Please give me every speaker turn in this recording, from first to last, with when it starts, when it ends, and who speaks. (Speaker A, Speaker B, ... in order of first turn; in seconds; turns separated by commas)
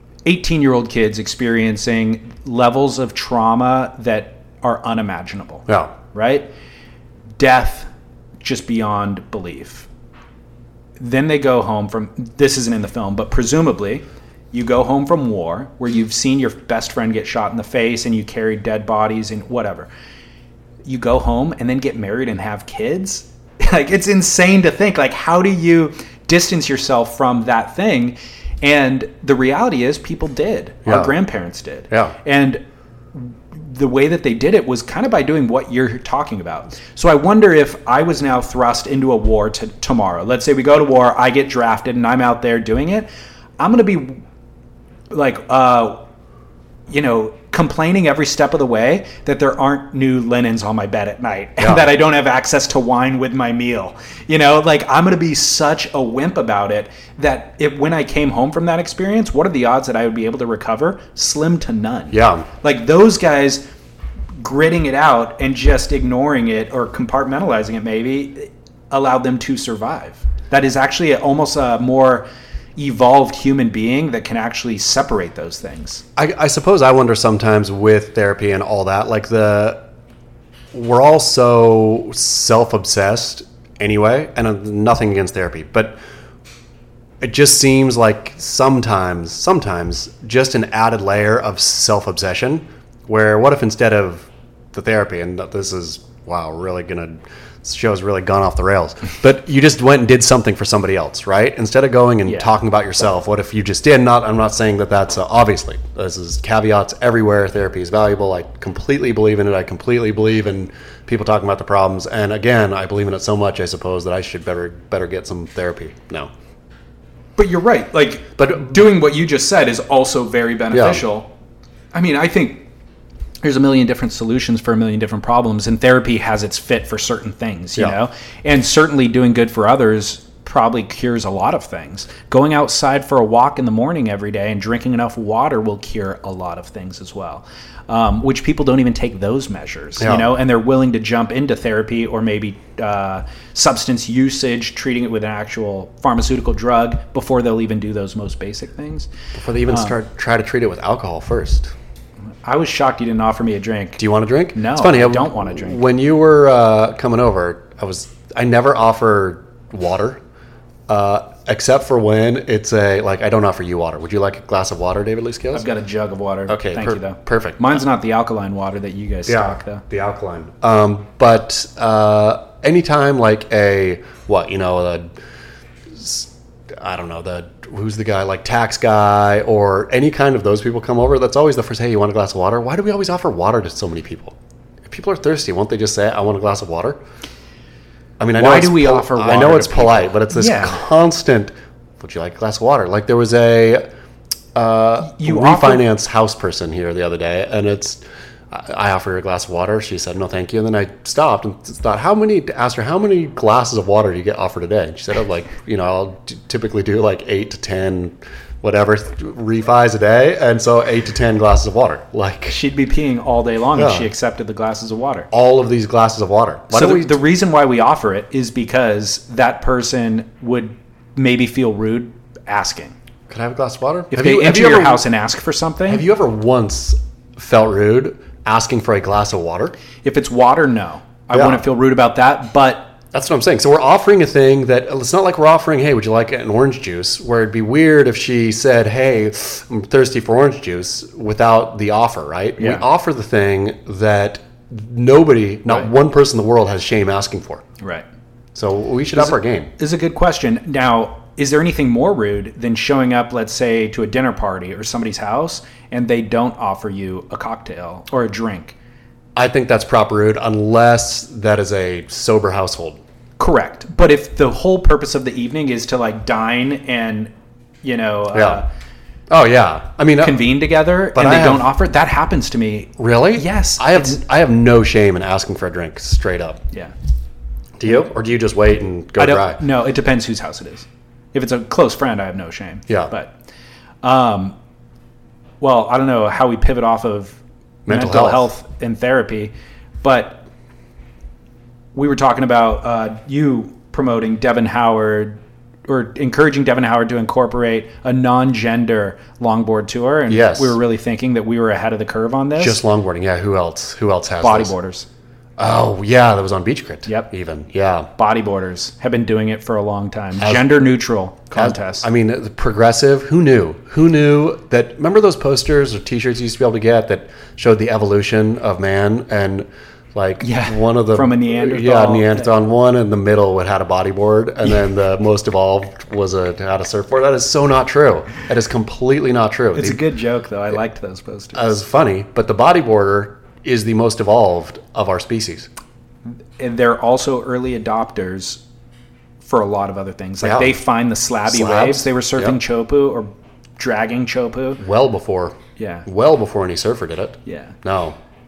Speaker A: 0.2-6.5, Speaker B: 5.7-5.9, Speaker A: 7.4-7.9, Speaker A: 8.4-9.9, Speaker A: 11.0-19.9, Speaker A: 20.9-32.6, Speaker B: 30.9-31.2, Speaker A: 33.1-43.1, Speaker A: 43.6-44.2, Speaker A: 45.1-46.0, Speaker A: 46.9-63.6, Speaker B: 51.6-51.9, Speaker B: 62.1-62.5, Speaker A: 64.4-72.2, Speaker A: 72.8-76.0, Speaker B: 76.2-79.8, Speaker B: 80.7-86.0, Speaker B: 87.2-116.3, Speaker A: 117.4-121.3, Speaker B: 118.4-118.8, Speaker B: 120.7-121.0, Speaker A: 121.9-122.7, Speaker A: 123.4-149.1, Speaker B: 140.0-140.3, Speaker B: 149.3-151.7, Speaker A: 149.7-149.9, Speaker A: 152.4-154.0, Speaker B: 154.0-160.2, Speaker A: 154.6-155.8, Speaker B: 160.9-165.7, Speaker A: 165.5-169.8, Speaker B: 166.5-167.8, Speaker B: 169.3-175.1, Speaker B: 175.9-187.0, Speaker B: 188.2-193.8, Speaker A: 188.3-190.8, Speaker B: 194.6-212.6, Speaker A: 195.0-195.8, Speaker A: 212.5-215.3, Speaker B: 213.8-214.1, Speaker B: 215.3-217.2, Speaker A: 216.7-222.9, Speaker B: 223.3-225.0, Speaker A: 224.1-226.0, Speaker B: 225.9-229.8, Speaker A: 230.0-232.9, Speaker B: 231.3-231.6, Speaker B: 233.1-247.6, Speaker A: 242.6-242.8, Speaker A: 247.8-248.1, Speaker B: 248.6-249.7, Speaker A: 249.2-258.8, Speaker B: 259.4-263.0, Speaker A: 263.4-267.3, Speaker A: 267.8-268.7, Speaker B: 268.3-268.6, Speaker B: 269.3-270.5, Speaker A: 270.2-274.2, Speaker B: 271.1-271.7, Speaker B: 273.0-276.6, Speaker B: 277.8-279.6, Speaker A: 279.2-283.3, Speaker A: 284.0-284.6, Speaker A: 285.6-290.4, Speaker B: 287.9-288.5, Speaker A: 291.9-302.8, Speaker B: 300.3-300.8, Speaker B: 302.6-304.7, Speaker A: 304.4-305.1, Speaker B: 305.6-308.1, Speaker A: 308.2-312.1, Speaker B: 310.4-310.6, Speaker B: 311.5-330.0, Speaker A: 320.4-322.5, Speaker A: 329.7-331.7, Speaker B: 331.5-335.7, Speaker A: 336.6-338.6, Speaker A: 339.4-344.8, Speaker B: 340.4-340.8, Speaker B: 341.5-342.6, Speaker B: 344.8-348.2, Speaker A: 345.8-346.1, Speaker A: 347.5-347.8